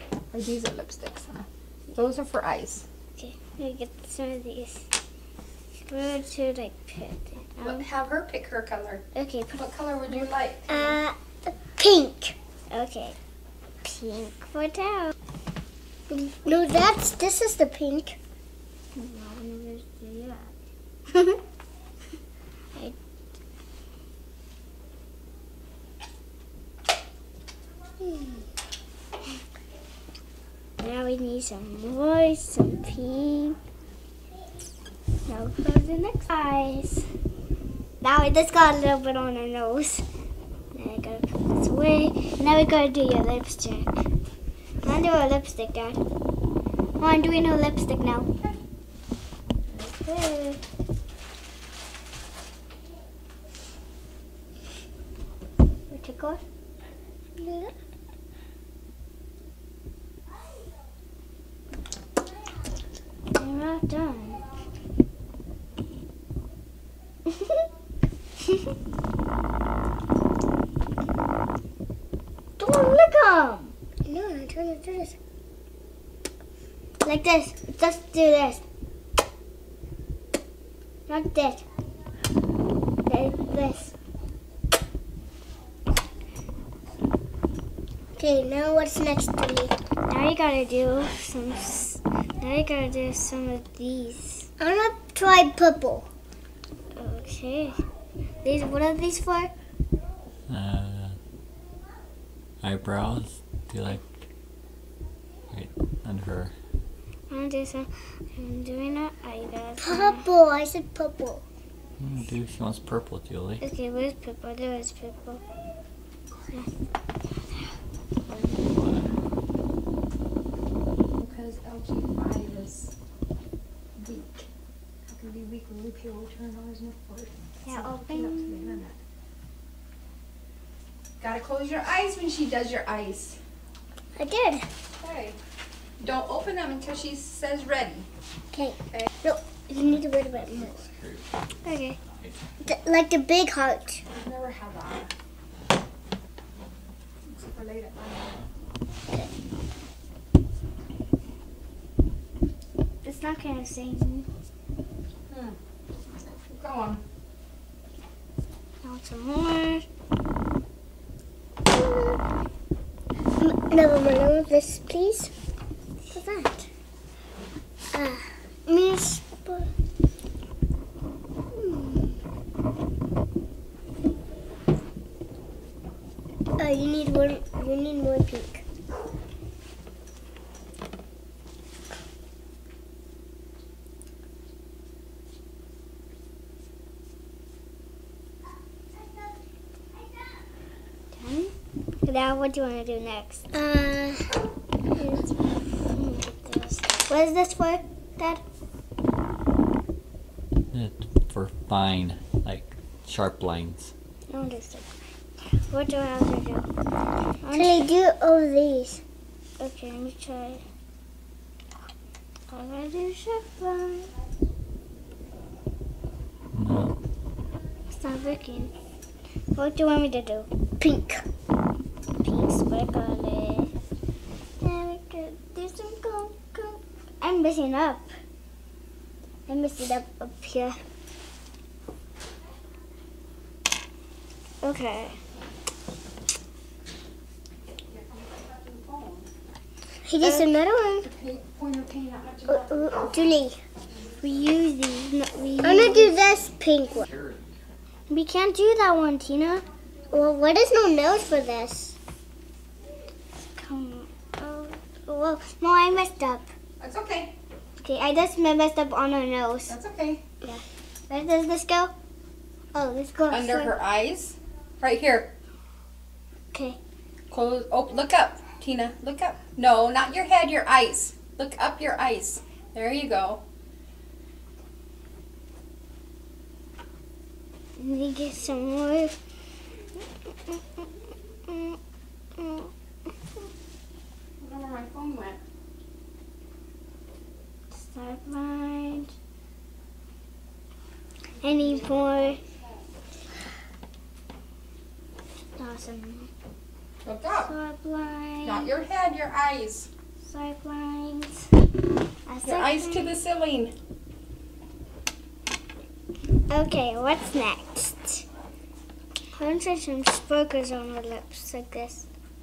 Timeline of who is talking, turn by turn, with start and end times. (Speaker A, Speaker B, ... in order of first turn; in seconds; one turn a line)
Speaker A: 0.3-2.8
Speaker B: 3.1-4.9
Speaker B: 5.9-7.9
Speaker A: 7.6-10.8
Speaker B: 9.1-10.3
Speaker C: 10.7-12.3
Speaker B: 12.7-13.2
Speaker B: 13.8-15.1
Speaker C: 16.1-18.2
Speaker B: 18.9-20.5
Speaker B: 30.8-33.6
Speaker B: 35.2-37.1
Speaker B: 38.0-40.0
Speaker B: 40.7-44.1
Speaker B: 44.8-46.0
Speaker B: 47.0-48.3
Speaker B: 49.7-50.6
Speaker B: 55.9-56.4
Speaker B: 57.4-57.7
Speaker B: 63.3-64.4
Speaker B: 67.3-67.7
Speaker B: 72.6-73.7
Speaker C: 74.1-75.2
Speaker B: 77.0-78.6
Speaker B: 81.1-81.6
Speaker B: 83.0-83.9
Speaker C: 88.2-89.7
Speaker B: 90.1-94.5
Speaker C: 94.6-96.1
Speaker B: 96.9-97.8
Speaker B: 98.4-99.5
Speaker D: 100.5-101.2
Speaker D: 102.6-104.0
Speaker D: 105.5-106.5
Speaker B: 107.3-110.2
Speaker C: 109.8-111.4
Speaker D: 112.0-113.6
Speaker B: 113.6-115.4
Speaker D: 118.7-119.1
Speaker A: 121.2-122.9
Speaker A: 124.0-124.5
Speaker A: 125.1-128.9
Speaker B: 127.6-128.8
Speaker A: 131.2-133.4
Speaker C: 134.2-134.7
Speaker A: 135.0-135.4
Speaker A: 136.0-138.1
Speaker C: 138.5-140.8
Speaker D: 139.8-141.3
Speaker B: 141.6-142.0
Speaker D: 142.0-142.4
Speaker C: 142.6-144.0
Speaker A: 144.1-145.1
Speaker A: 147.3-148.4
Speaker B: 153.0-154.3
Speaker A: 155.3-155.6
Speaker A: 156.5-157.0
Speaker B: 158.8-159.8
Speaker C: 161.8-162.2
Speaker C: 163.4-165.3
Speaker C: 166.1-166.6
Speaker C: 167.9-169.7
Speaker C: 171.5-172.1
Speaker C: 176.6-178.6
Speaker B: 191.1-191.5
Speaker B: 192.0-193.5
Speaker C: 193.5-194.3
Speaker B: 195.9-198.4
Speaker D: 200.7-203.9
Speaker B: 204.3-204.9
Speaker B: 205.7-206.7
Speaker B: 207.4-207.9
Speaker C: 207.5-209.0
Speaker B: 209.6-210.6
Speaker B: 212.5-214.1
Speaker D: 216.5-216.9
Speaker B: 217.9-218.7
Speaker B: 219.5-220.5
Speaker C: 220.8-221.2
Speaker B: 222.2-223.7
Speaker B: 224.6-228.1
Speaker B: 229.5-230.8
Speaker B: 234.6-235.2
Speaker A: 237.9-239.3
Speaker C: 240.0-241.1
Speaker B: 240.2-240.5
Speaker A: 241.0-243.4
Speaker C: 242.5-243.6
Speaker B: 244.2-246.2
Speaker C: 245.6-247.1
Speaker D: 247.0-247.4
Speaker B: 248.1-249.6
Speaker C: 250.1-251.9
Speaker B: 253.5-256.5
Speaker A: 256.8-257.3
Speaker B: 257.8-259.7
Speaker A: 259.7-260.2
Speaker B: 260.4-261.9
Speaker B: 262.7-263.7
Speaker A: 263.3-265.3
Speaker B: 266.5-266.8
Speaker A: 267.3-273.4
Speaker B: 277.8-279.1
Speaker B: 280.4-280.9
Speaker B: 281.4-281.8
Speaker B: 282.4-282.7
Speaker A: 284.4-285.4
Speaker B: 287.7-289.1
Speaker B: 291.4-292.4
Speaker A: 291.4-292.7
Speaker B: 295.6-296.3
Speaker A: 297.0-297.5
Speaker B: 297.4-298.7
Speaker A: 298.4-299.9
Speaker B: 300.2-301.5
Speaker B: 302.2-303.1
Speaker A: 302.4-303.7
Speaker B: 306.5-308.2
Speaker B: 309.3-312.1